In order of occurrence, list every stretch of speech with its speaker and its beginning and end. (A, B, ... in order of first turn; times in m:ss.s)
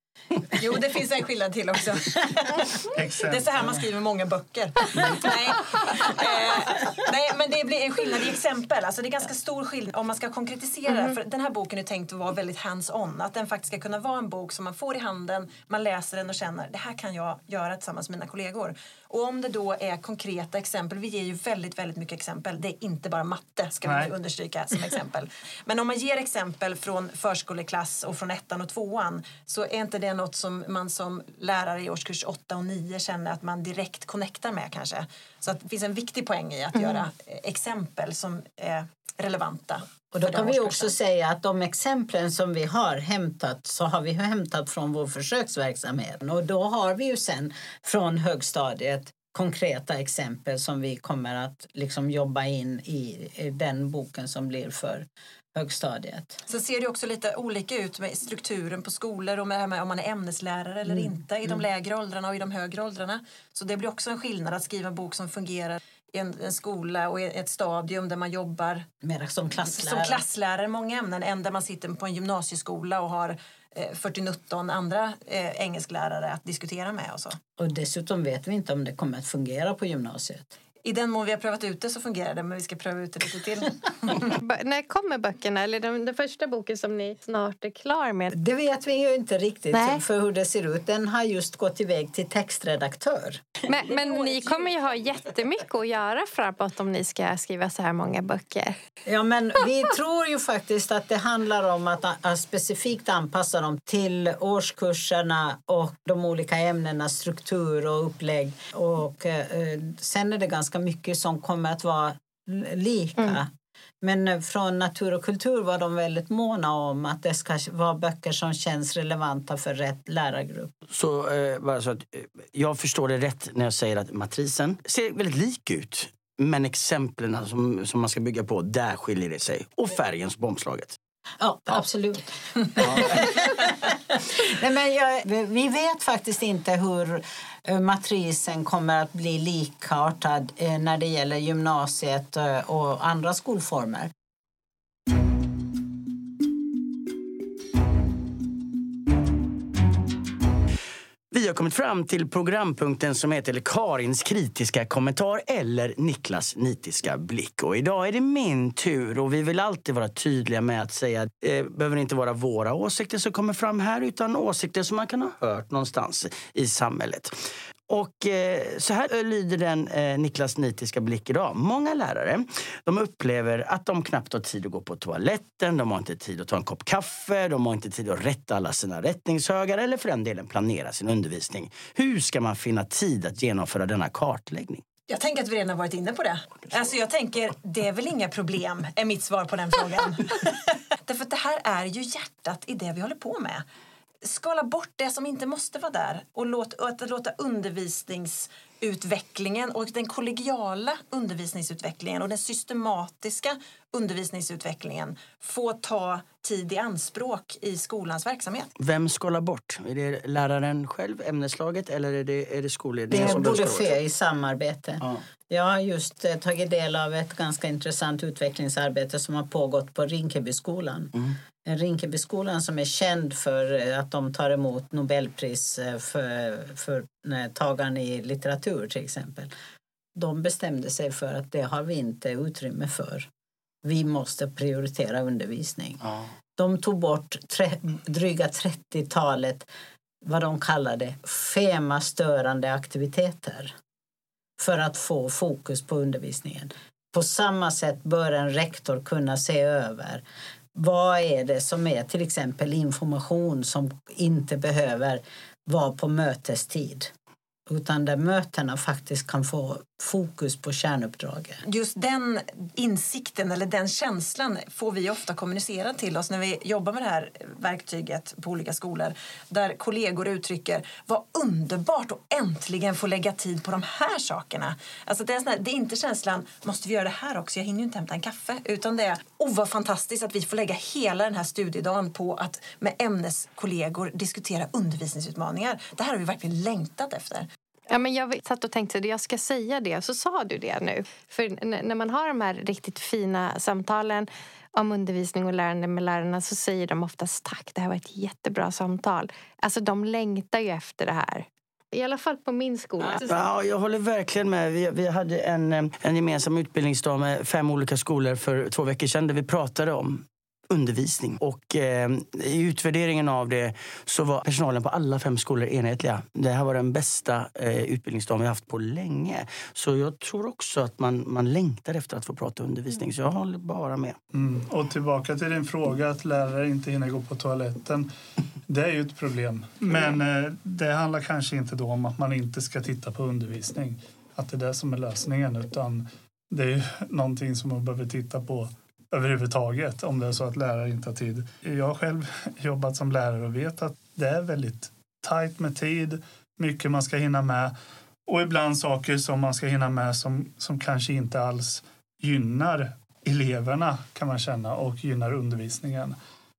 0:00.5-0:41.0 A
0:02.9-0:03.8 B
0:10.9-0:11.2 C
0:23.9-0:24.1 B
0:40.1-0:56.4 D
0:56.5-1:08.9 A
1:09.0-1:10.2 D
1:09.7-1:17.4 A
1:17.6-1:20.5 D
1:20.8-1:24.4 A
1:24.4-1:28.3 C
1:28.3-1:33.6 D
1:29.7-1:30.0 C
1:33.7-1:38.8 C
1:39.1-1:53.5 D
1:54.0-2:00.7 D
2:00.9-2:11.0 E
2:11.4-2:24.1 D
2:31.3-2:47.4 E
2:47.9-3:04.8 E
3:05.1-3:13.6 A
3:14.2-3:28.7 A
3:28.8-3:34.0 E
3:33.1-3:41.1 D
3:41.6-3:49.5 D
3:50.2-3:53.3 D
3:53.8-3:56.0 D
3:56.6-3:59.7 D
4:00.2-4:03.7 D
4:04.6-4:10.2 D
4:10.8-4:17.1 D
4:17.7-4:21.6 D
4:21.6-4:47.5 A
4:47.9-5:03.4 C
5:03.0-5:24.2 E
5:24.3-5:28.1 B
5:28.7-5:47.7 B
5:48.3-5:56.2 B